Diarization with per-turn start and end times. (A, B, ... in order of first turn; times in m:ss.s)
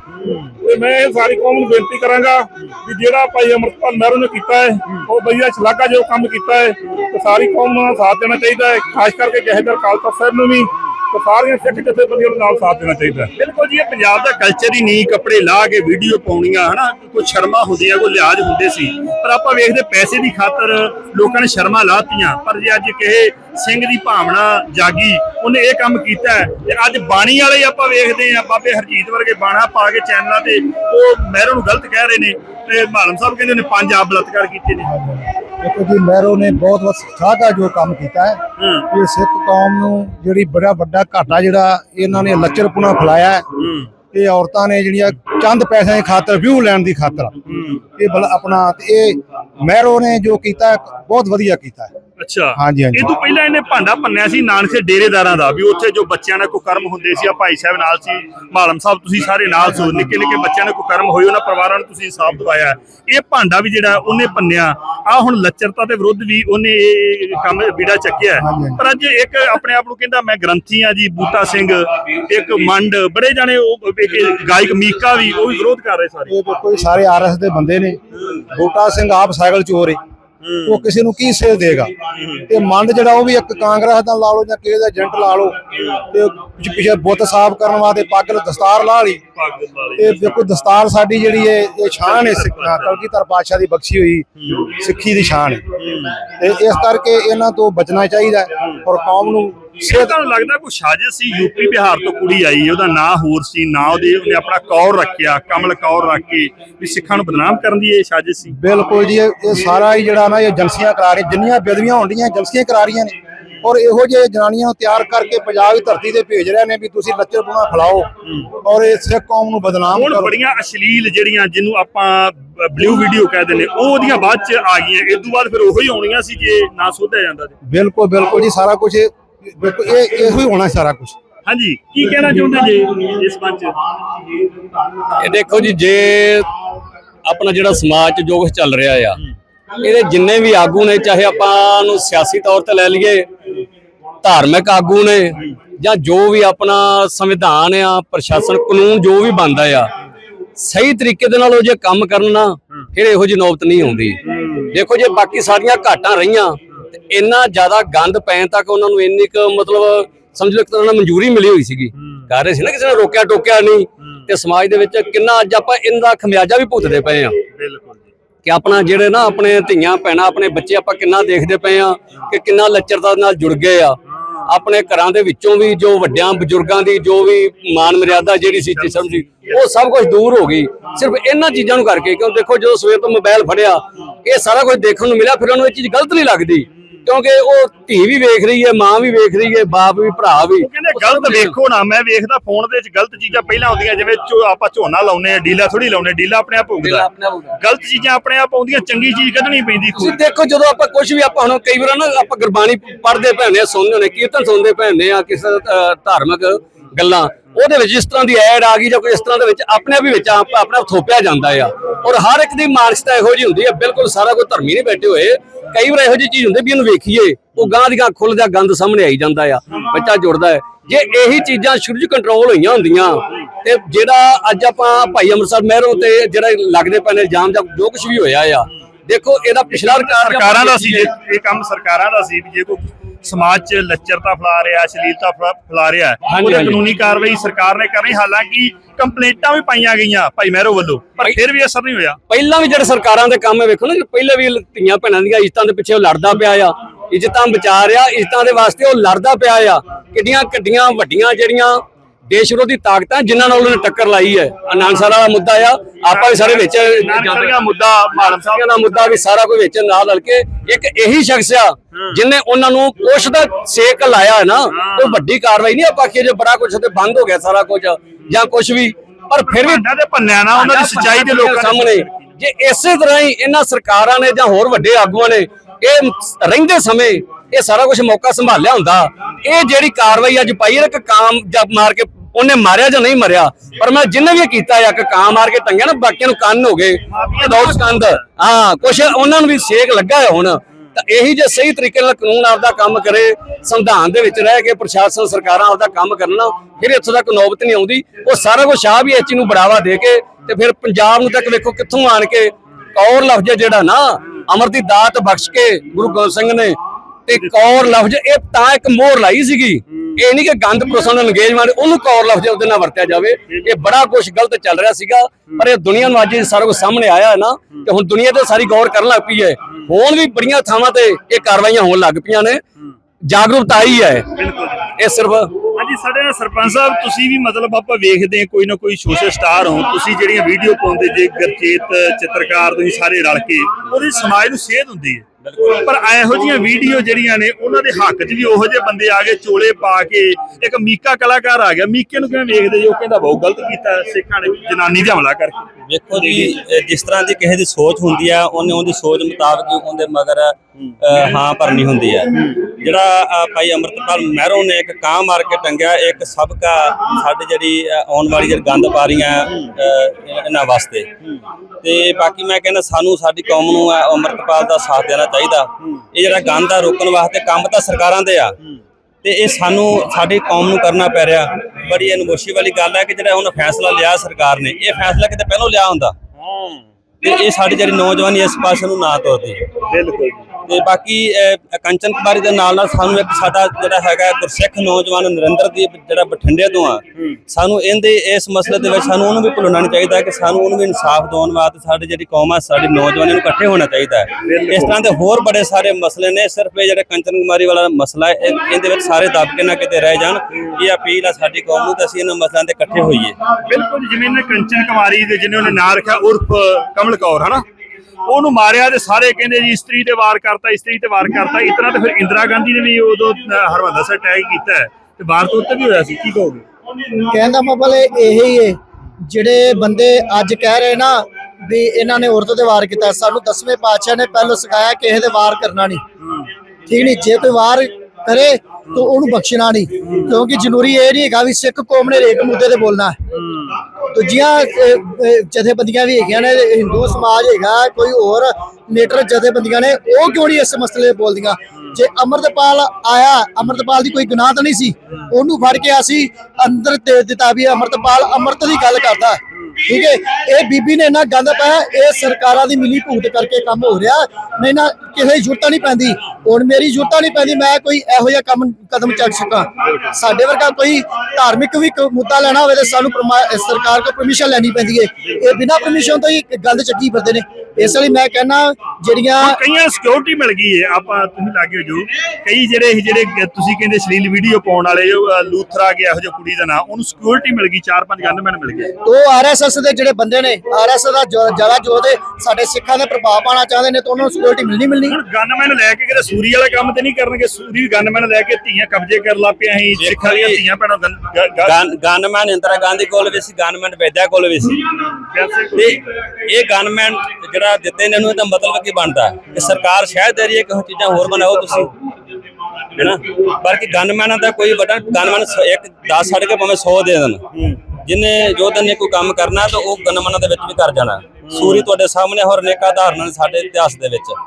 0:00.6-0:13.3 A
0:13.4-0:34.9 B
0:34.9-0:43.4 C
0:38.6-0:38.9 B
0:43.6-0:43.9 B
0:44.1-0:51.9 C
0:47.5-0:47.8 B
0:52.2-1:16.3 B
0:52.6-0:53.1 C
1:08.4-1:08.8 C
1:16.3-1:20.0 C
1:20.4-1:20.8 B
1:20.6-1:21.9 C
1:22.2-1:22.5 B
1:22.5-1:29.2 C
1:25.8-1:26.0 B
1:29.4-1:30.4 B
1:30.0-1:35.7 C
1:32.0-1:33.0 B
1:34.4-1:34.7 B
1:35.8-1:36.2 B
1:36.4-1:40.2 C
1:39.8-1:48.6 B
1:48.5-1:58.1 C
1:58.6-2:00.3 C
1:59.9-2:07.6 B
2:07.6-2:11.2 C
2:11.5-2:13.8 B
2:15.2-2:16.5 D
2:17.2-2:19.2 D
2:19.8-2:23.3 D
2:24.2-2:29.9 D
2:30.6-2:47.4 D
2:34.3-2:34.7 B
2:42.0-2:42.2 B
2:47.6-2:48.1 B
2:48.4-3:11.5 D
2:54.2-2:54.5 B
2:58.7-2:59.2 B
3:10.6-3:17.1 B
3:16.8-3:17.6 D
3:17.6-3:20.2 B
3:20.0-3:51.1 D
3:49.7-4:02.2 B
3:56.3-3:56.8 D
4:02.3-4:17.6 D
4:14.8-4:15.1 B
4:16.0-4:19.0 B
4:18.3-4:29.8 D
4:21.9-4:22.2 B
4:24.7-4:25.2 B
4:29.4-4:32.3 B
4:30.5-5:22.6 D
4:47.1-4:48.2 B
5:07.3-5:07.6 B
5:23.2-5:24.3 D
5:24.4-5:24.9 B
5:25.0-5:25.5 D
5:25.7-5:46.6 B
5:35.4-5:35.8 E
5:45.9-6:01.1 E
6:01.8-6:08.6 E
6:09.2-6:16.2 E
6:16.4-6:16.9 B
6:17.2-6:19.7 E
6:19.9-6:20.5 B
6:20.7-6:43.4 E
6:34.4-6:35.0 B
6:43.6-6:47.6 B
6:48.3-6:56.6 B
6:57.3-7:06.0 F
7:06.2-7:06.5 B
7:06.9-7:13.2 F
7:10.0-7:10.3 B
7:13.3-7:13.8 B
7:14.1-7:49.6 F
7:49.4-7:58.9 B
7:59.0-8:05.2 F
8:05.1-8:11.8 B
8:10.0-8:10.6 E
8:11.6-8:14.8 E
8:15.1-8:16.0 B
8:15.8-8:21.9 E
8:21.4-8:21.9 B
8:23.0-8:34.4 E
8:27.5-8:27.8 B
8:31.4-8:31.9 B